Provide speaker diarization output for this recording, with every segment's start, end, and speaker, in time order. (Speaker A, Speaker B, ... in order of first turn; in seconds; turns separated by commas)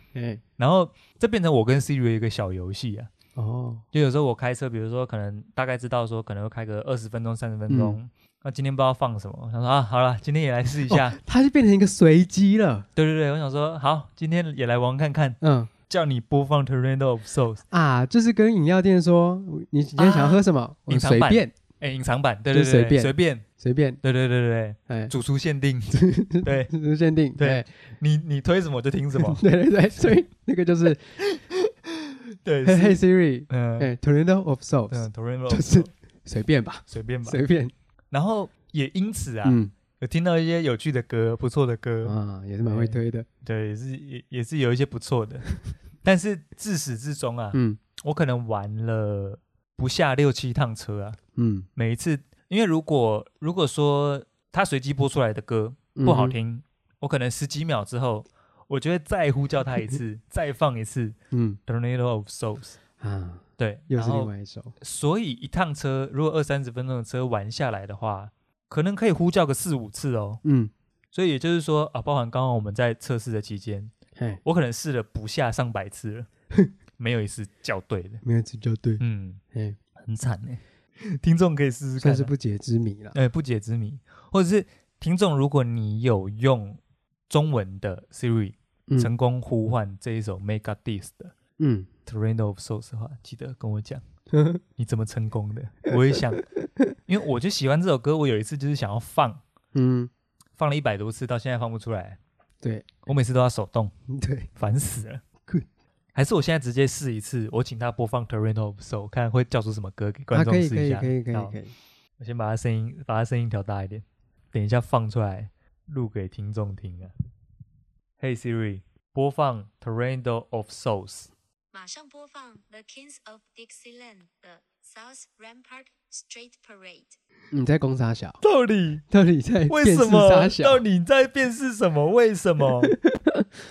Speaker A: 0.1-0.4, Speaker B: 0.6-3.1, Speaker A: 3.4-3.9, Speaker B: 3.9-11.2, Speaker A: 7.7-8.0, Speaker A: 10.9-12.9, Speaker B: 13.0-17.6, Speaker A: 15.4-15.7, Speaker A: 17.7-21.5, Speaker B: 20.0-23.4, Speaker A: 22.5-24.0, Speaker B: 24.0-26.7, Speaker A: 24.9-25.1, Speaker A: 25.9-27.6, Speaker B: 27.4-29.4, Speaker A: 29.2-31.2, Speaker B: 31.2-33.9, Speaker A: 32.6-37.7, Speaker B: 34.9-35.9, Speaker B: 36.9-37.4, Speaker B: 38.1-45.5, Speaker A: 39.4-39.7, Speaker A: 42.0-43.3, Speaker B: 46.0-51.2, Speaker A: 47.5-47.8, Speaker A: 51.4-51.7, Speaker B: 51.8-61.2, Speaker A: 56.0-56.4, Speaker A: 61.3-61.6, Speaker B: 61.7-62.8, Speaker A: 63.0-64.8, Speaker B: 63.6-70.4, Speaker A: 70.4-70.7, Speaker B: 71.1-73.9, Speaker A: 74.2-74.4, Speaker B: 74.4-76.3, Speaker B: 77.0-78.2, Speaker A: 78.2-79.0, Speaker B: 79.0-79.4, Speaker A: 79.5-79.8, Speaker B: 80.0-82.3, Speaker A: 82.0-83.2, Speaker B: 83.1-91.3, Speaker A: 91.6-91.9, Speaker B: 92.1-94.0, Speaker A: 94.3-94.6, Speaker B: 94.8-96.4, Speaker B: 97.1-99.4, Speaker A: 99.7-100.1, Speaker B: 100.6-102.2, Speaker A: 102.6-102.9, Speaker B: 103.0-103.9, Speaker A: 104.1-104.5, Speaker B: 104.6-105.2, Speaker B: 106.2-111.6, Speaker A: 110.3-111.8, Speaker B: 112.2-117.1, Speaker B: 118.2-121.3, Speaker C: 121.7-127.2, Speaker A: 127.5-128.4, Speaker B: 128.4-129.1, Speaker A: 129.1-130.8, Speaker B: 129.7-132.9, Speaker A: 132.9-133.4